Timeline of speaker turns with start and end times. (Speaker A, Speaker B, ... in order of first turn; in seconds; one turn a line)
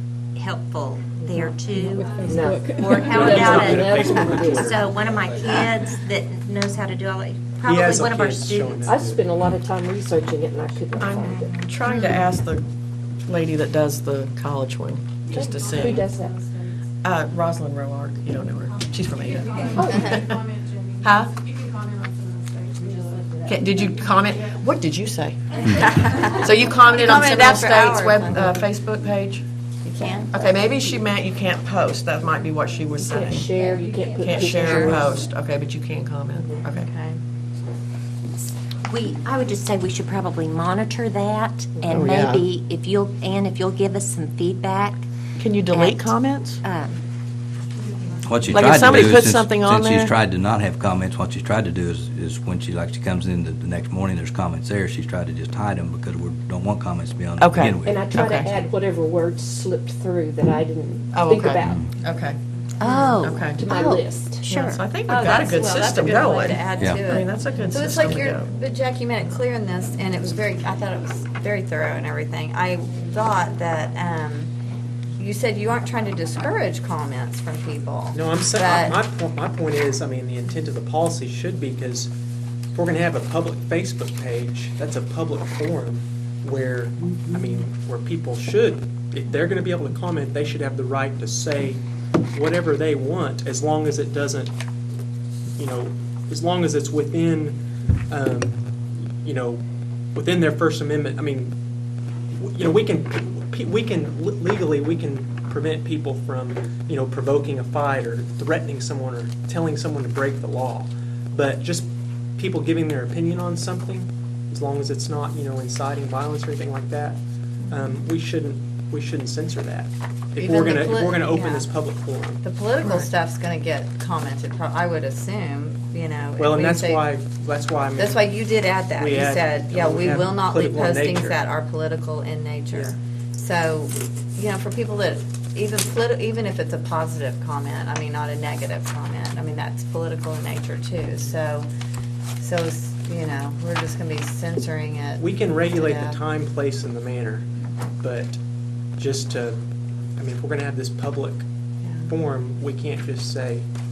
Speaker A: 0.3-9.1
Speaker B: 1.8-4.7
Speaker C: 2.0-3.1
Speaker D: 3.1-5.5
Speaker D: 7.6-9.2
Speaker B: 8.8-11.6
Speaker E: 11.0-12.6
Speaker E: 13.2-16.1
Speaker B: 15.3-16.3
Speaker C: 15.6-16.7
Speaker E: 17.0-20.4
Speaker C: 19.2-23.4
Speaker F: 19.7-20.1
Speaker B: 19.8-20.0
Speaker E: 21.0-21.3
Speaker F: 23.0-23.4
Speaker E: 23.4-29.4
Speaker F: 25.7-28.7
Speaker F: 29.8-30.5
Speaker E: 30.3-33.6
Speaker B: 33.1-35.1
Speaker E: 34.1-36.9
Speaker F: 34.2-35.0
Speaker F: 36.7-37.2
Speaker A: 38.9-45.0
Speaker E: 41.9-42.5
Speaker E: 45.4-46.6
Speaker A: 45.7-47.0
Speaker G: 48.2-58.4
Speaker E: 48.5-50.1
Speaker E: 57.4-58.6
Speaker B: 57.8-61.8
Speaker E: 61.1-62.4
Speaker G: 61.6-61.9
Speaker A: 62.8-64.8
Speaker E: 63.2-63.6
Speaker B: 63.6-64.4
Speaker E: 64.5-68.6
Speaker F: 65.0-74.5
Speaker G: 66.8-67.0
Speaker F: 75.2-79.0
Speaker D: 78.1-82.1
Speaker D: 82.7-91.8
Speaker D: 92.3-94.5
Speaker D: 95.6-97.6
Speaker D: 98.1-98.7
Speaker D: 99.2-99.6
Speaker D: 100.1-101.5
Speaker D: 102.3-122.4
Speaker F: 120.4-121.7
Speaker F: 122.4-127.1
Speaker D: 126.4-128.4
Speaker F: 127.9-141.7
Speaker D: 128.9-131.4
Speaker F: 142.4-146.2
Speaker D: 145.2-147.5
Speaker D: 148.0-148.4
Speaker D: 149.0-149.6
Speaker D: 150.2-151.4
Speaker F: 151.8-152.1
Speaker D: 152.1-153.7